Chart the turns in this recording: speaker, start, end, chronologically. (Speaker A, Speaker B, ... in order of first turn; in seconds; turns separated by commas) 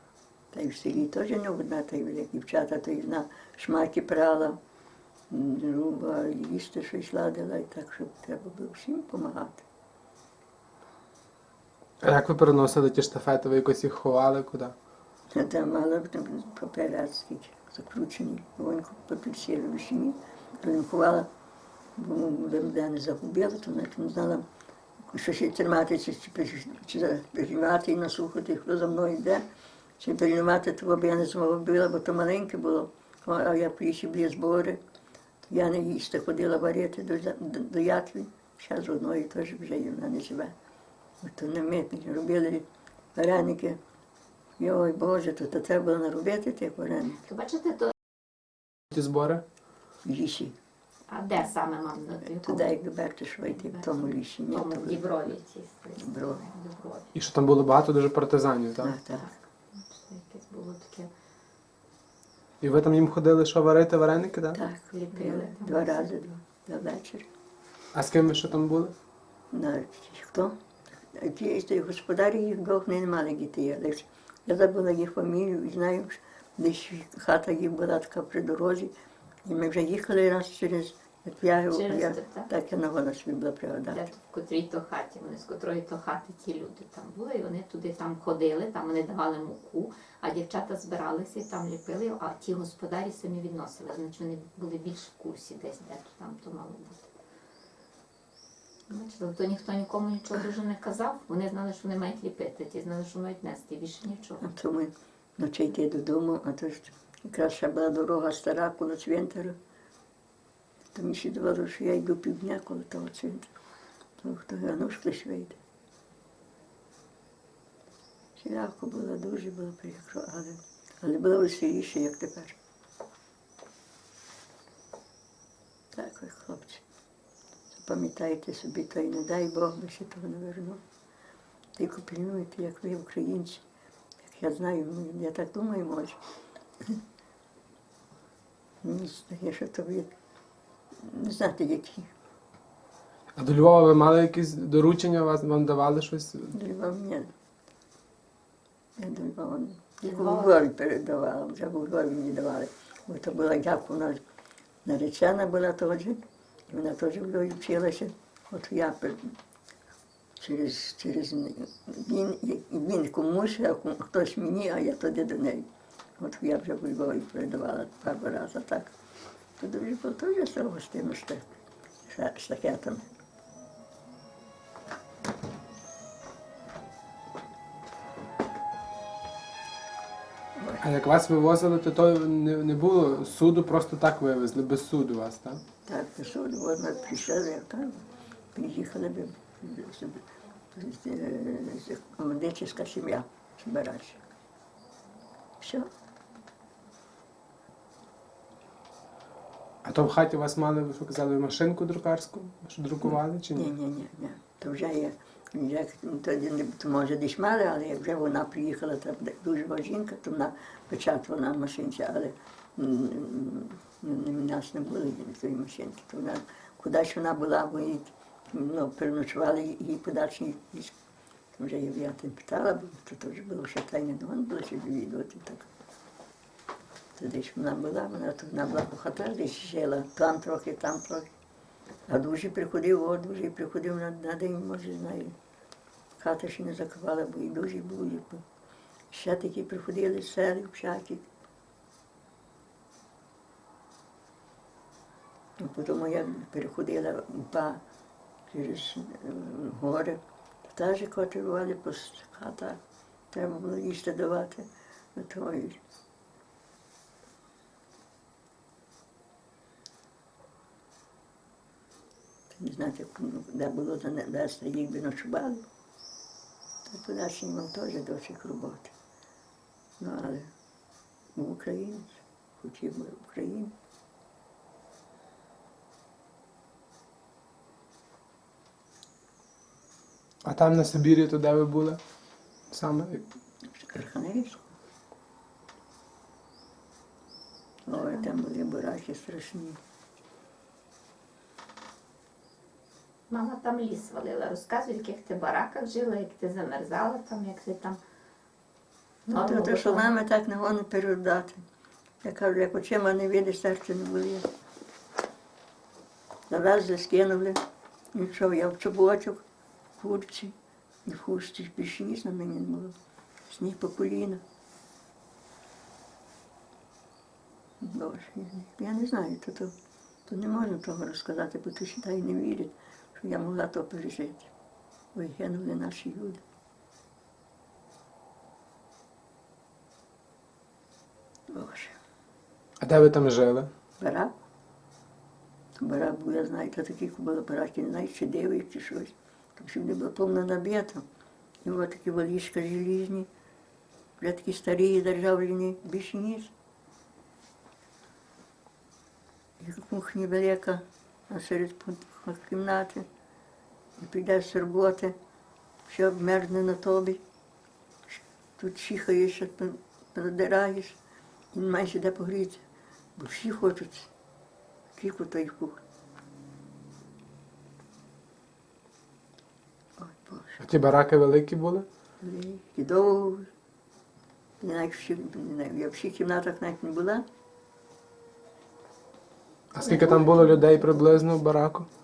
Speaker A: 0.5-4.6, Speaker A: 5.3-9.6, Speaker B: 12.0-14.7, Speaker A: 15.3-21.3, Speaker A: 22.0-24.4, Speaker A: 25.0-29.4, Speaker A: 30.0-34.8, Speaker A: 35.5-40.5, Speaker A: 41.2-43.8, Speaker A: 44.6-47.2, Speaker C: 47.0-47.9, Speaker B: 48.9-49.4, Speaker A: 50.0-50.5, Speaker C: 51.1-52.8, Speaker A: 52.4-55.1, Speaker C: 53.5-57.1, Speaker A: 56.0-56.4, Speaker B: 57.1-59.0, Speaker A: 58.8-59.3, Speaker C: 59.1-61.1, Speaker B: 62.6-64.6, Speaker A: 64.5-67.3, Speaker C: 64.9-66.1, Speaker B: 67.9-69.0, Speaker A: 69.5-70.5, Speaker A: 71.1-78.9, Speaker A: 79.5-84.1, Speaker C: 81.7-82.5, Speaker C: 83.9-97.1, Speaker C: 98.9-104.5, Speaker A: 104.4-109.5, Speaker A: 110.9-113.5, Speaker A: 114.2-115.6, Speaker A: 118.4-122.6, Speaker A: 125.9-126.8, Speaker A: 127.7-130.8, Speaker A: 131.8-133.6, Speaker A: 134.2-136.2, Speaker A: 138.8-140.1, Speaker A: 141.0-142.1, Speaker B: 143.4-146.6, Speaker A: 146.5-147.3, Speaker A: 149.0-154.2, Speaker C: 150.0-150.6, Speaker A: 154.8-159.3, Speaker A: 160.4-165.7, Speaker A: 166.2-168.9, Speaker A: 169.6-171.5, Speaker A: 172.1-173.1, Speaker A: 180.6-180.8, Speaker B: 180.8-185.6, Speaker A: 185.9-194.2, Speaker A: 195.6-195.9, Speaker B: 199.8-203.7, Speaker A: 203.0-220.9, Speaker A: 221.6-225.7, Speaker A: 227.2-231.3, Speaker A: 232.1-235.3, Speaker A: 236.2-238.4, Speaker A: 239.1-241.2, Speaker A: 245.6-247.8, Speaker A: 248.5-252.8, Speaker A: 253.3-255.8, Speaker A: 262.5-265.6, Speaker A: 266.9-268.9, Speaker A: 270.0-270.5, Speaker A: 271.4-273.7, Speaker B: 280.4-282.0, Speaker B: 282.7-283.3, Speaker A: 283.6-284.7, Speaker A: 287.9-289.8, Speaker C: 287.9-288.2, Speaker C: 293.3-298.0, Speaker C: 299.3-300.1, Speaker A: 299.3-301.6, Speaker A: 302.2-304.5, Speaker A: 306.5-307.6, Speaker A: 308.1-309.4, Speaker A: 310.0-312.9, Speaker A: 313.5-314.4, Speaker A: 317.8-319.8, Speaker A: 320.3-324.5, Speaker A: 325.1-326.4, Speaker A: 331.5-332.0, Speaker B: 332.8-333.7, Speaker A: 334.0-334.3, Speaker A: 335.8-341.1, Speaker A: 341.6-343.3, Speaker A: 344.2-346.5, Speaker A: 349.6-353.1, Speaker A: 354.0-355.1, Speaker A: 355.9-357.2, Speaker A: 358.1-361.0, Speaker A: 361.5-362.6, Speaker A: 363.2-364.1, Speaker A: 364.9-365.8, Speaker A: 370.0-370.6, Speaker B: 370.6-371.9, Speaker A: 372.2-373.5, Speaker A: 374.6-377.2, Speaker B: 379.7-381.9, Speaker A: 379.8-381.1, Speaker C: 379.9-380.4